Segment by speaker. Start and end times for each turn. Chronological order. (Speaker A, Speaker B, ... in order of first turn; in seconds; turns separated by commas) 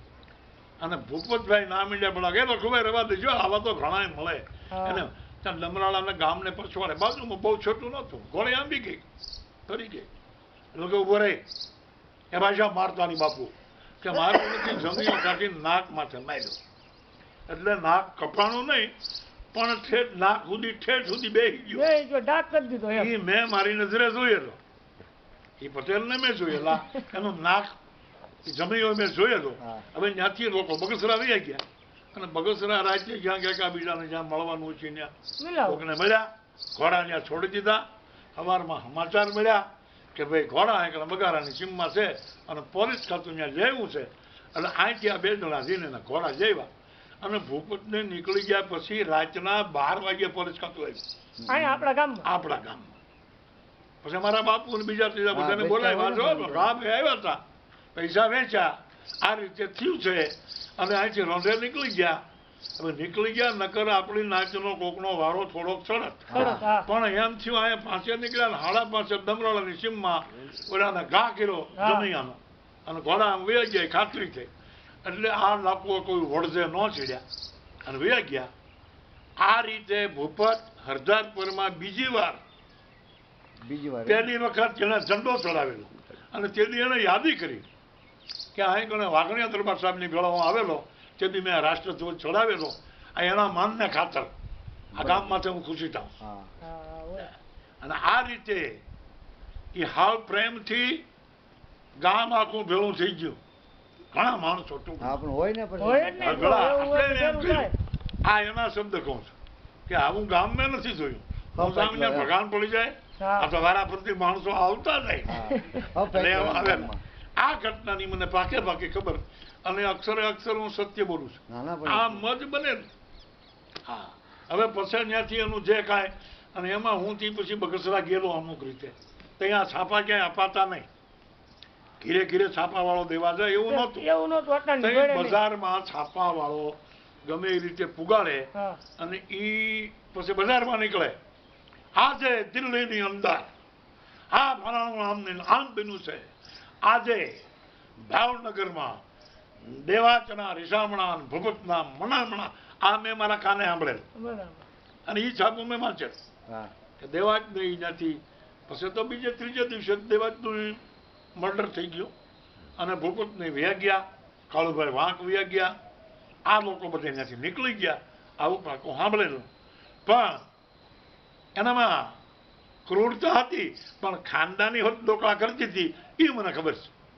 Speaker A: 0.8-9.0, Speaker B: 4.7-5.0, Speaker A: 9.7-10.1, Speaker A: 10.7-11.4, Speaker A: 12.3-16.6, Speaker A: 17.5-18.9, Speaker A: 19.5-21.9, Speaker B: 21.7-23.1, Speaker A: 22.9-24.6, Speaker A: 25.6-27.7, Speaker A: 28.4-31.6, Speaker A: 32.1-35.1, Speaker B: 35.4-35.8, Speaker A: 35.6-46.7, Speaker A: 47.2-51.0, Speaker C: 51.4-51.9, Speaker B: 51.5-52.3, Speaker A: 52.2-53.0, Speaker A: 54.0-57.4, Speaker C: 55.3-56.7, Speaker A: 57.9-62.2, Speaker A: 62.8-74.5, Speaker C: 66.3-66.6, Speaker B: 66.3-66.9, Speaker B: 71.8-72.1, Speaker A: 75.0-77.2, Speaker A: 77.8-78.5, Speaker A: 79.4-82.4, Speaker C: 83.6-84.3, Speaker A: 84.0-87.7, Speaker A: 88.5-94.3, Speaker C: 94.9-95.4, Speaker A: 95.0-96.1, Speaker C: 96.2-96.5, Speaker B: 96.6-97.3, Speaker A: 97.8-98.8, Speaker A: 99.7-101.0, Speaker A: 102.0-103.4, Speaker A: 104.1-105.2, Speaker C: 105.0-106.5, Speaker B: 105.8-107.7, Speaker A: 106.2-107.7, Speaker A: 108.2-109.3, Speaker A: 109.9-115.4, Speaker C: 111.5-112.3, Speaker B: 113.2-113.5, Speaker C: 115.3-117.0, Speaker B: 115.5-115.8, Speaker A: 116.1-122.9, Speaker C: 121.5-122.2, Speaker A: 123.8-130.9, Speaker A: 132.0-134.1, Speaker B: 133.6-135.4, Speaker A: 134.8-141.2, Speaker B: 138.5-138.8, Speaker A: 141.9-143.5, Speaker A: 144.3-146.3, Speaker A: 146.8-147.4, Speaker A: 148.0-149.0, Speaker A: 149.6-154.1, Speaker B: 154.2-154.7, Speaker A: 155.1-156.2, Speaker A: 157.0-160.8, Speaker A: 161.3-162.1, Speaker A: 162.8-165.7, Speaker A: 166.4-169.5, Speaker A: 170.0-170.4, Speaker A: 171.6-172.2, Speaker A: 172.8-176.9